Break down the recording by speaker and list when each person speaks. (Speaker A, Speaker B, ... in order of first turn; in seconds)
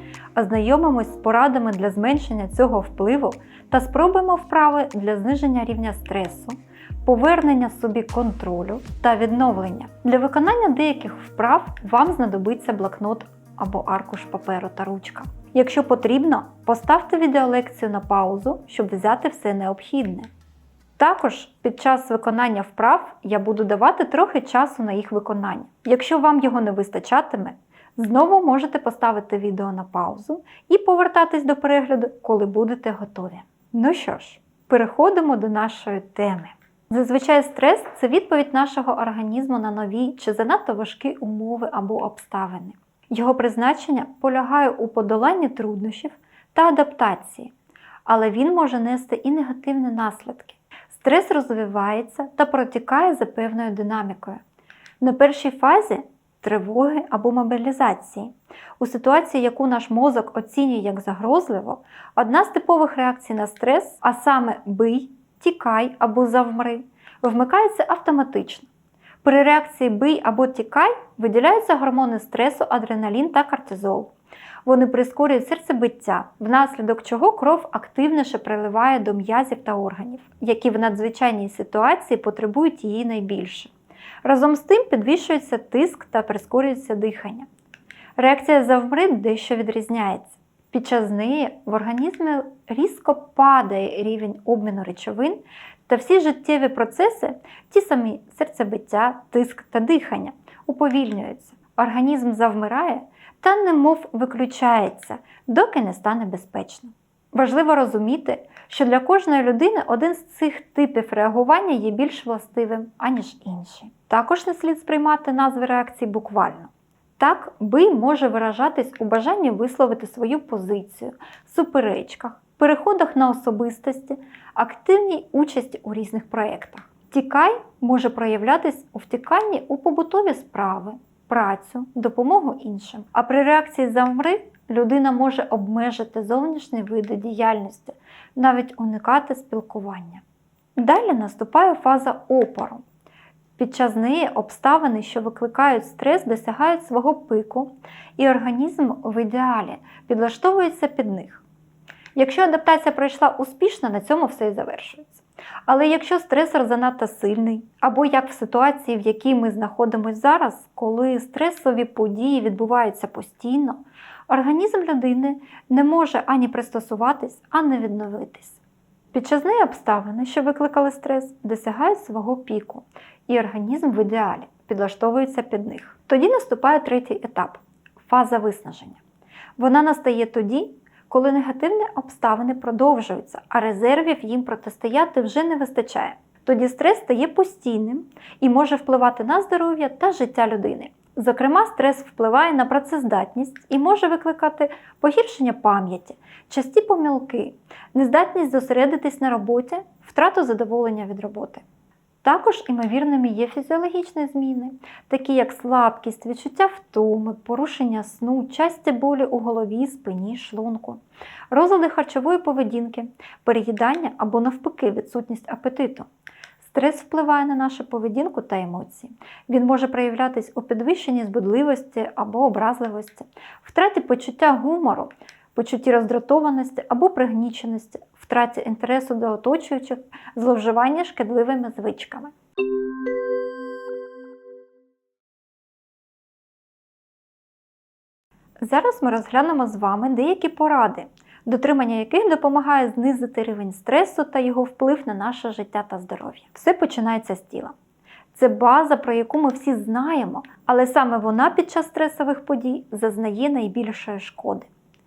Speaker A: 0.3-20.3, 21.0-47.5, 48.1-54.4, 55.0-68.7, 69.2-74.1, 74.7-83.7, 84.2-87.5, 88.2-140.2, 140.8-142.8, 143.6-151.4, 152.2-168.6, 169.1-179.0, 179.6-201.6, 202.2-216.1, 216.6-232.3, 238.6-247.8, 248.3-254.7